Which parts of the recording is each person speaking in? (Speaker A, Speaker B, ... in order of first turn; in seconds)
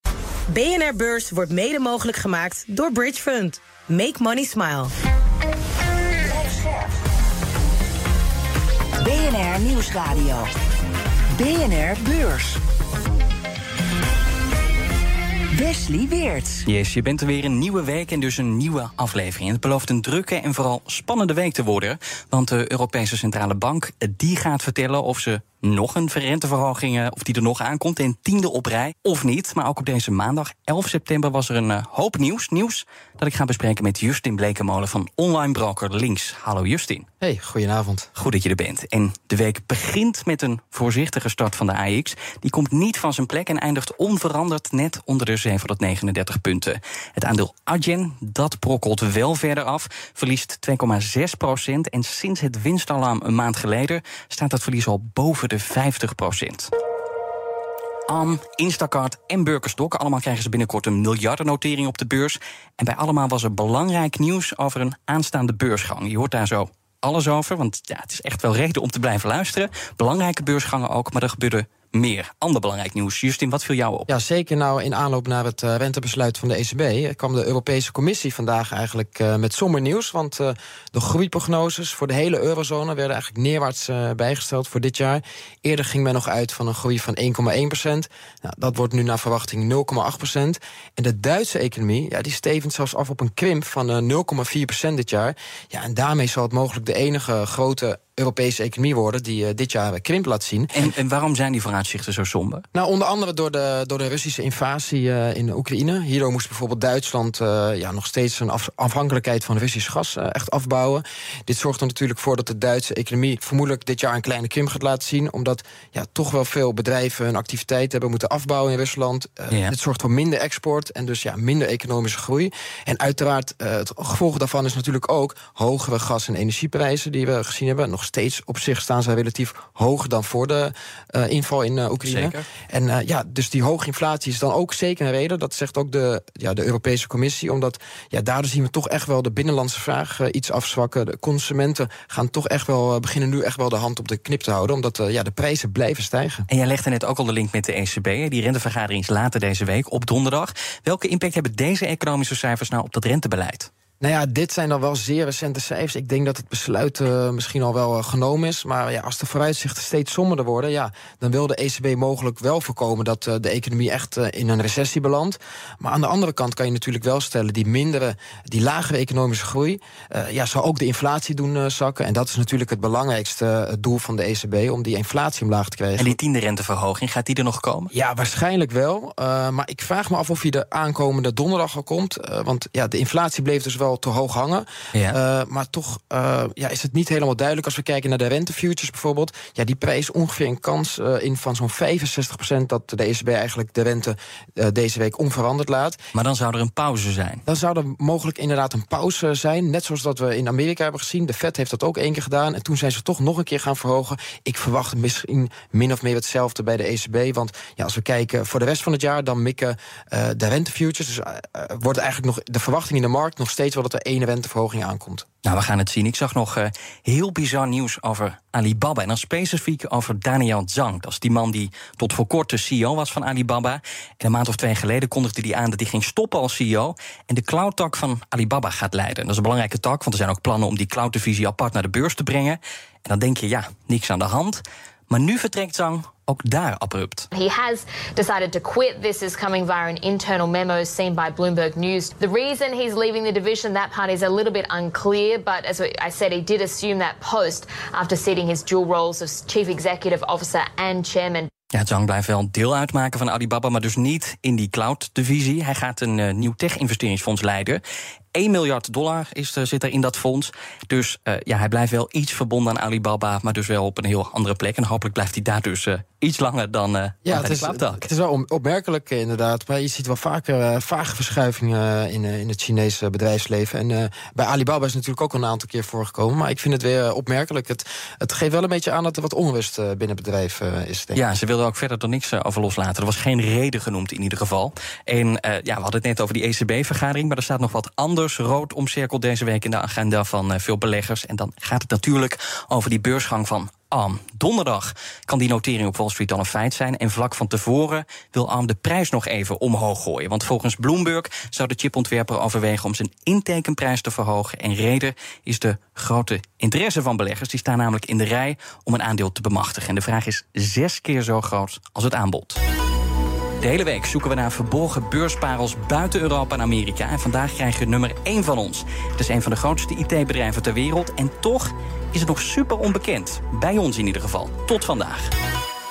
Speaker A: 0.5-4.9
Speaker B: 6.3-6.9, 9.0-10.5, 11.4-12.6, 15.5-16.7
Speaker C: 16.7-37.1, 38.2-56.7, 58.1-74.1, 100.7-102.7, 132.0-132.4, 146.5-153.7, 176.0-177.9, 196.1-197.4, 215.4-237.3, 251.7-257.8, 258.4-268.1, 281.1-312.6, 313.6-325.3
Speaker D: 37.2-38.1, 74.1-100.9, 102.7-146.5, 154.0-176.2, 177.9-196.0, 197.5-215.3, 267.2-281.2
Speaker E: 237.3-251.5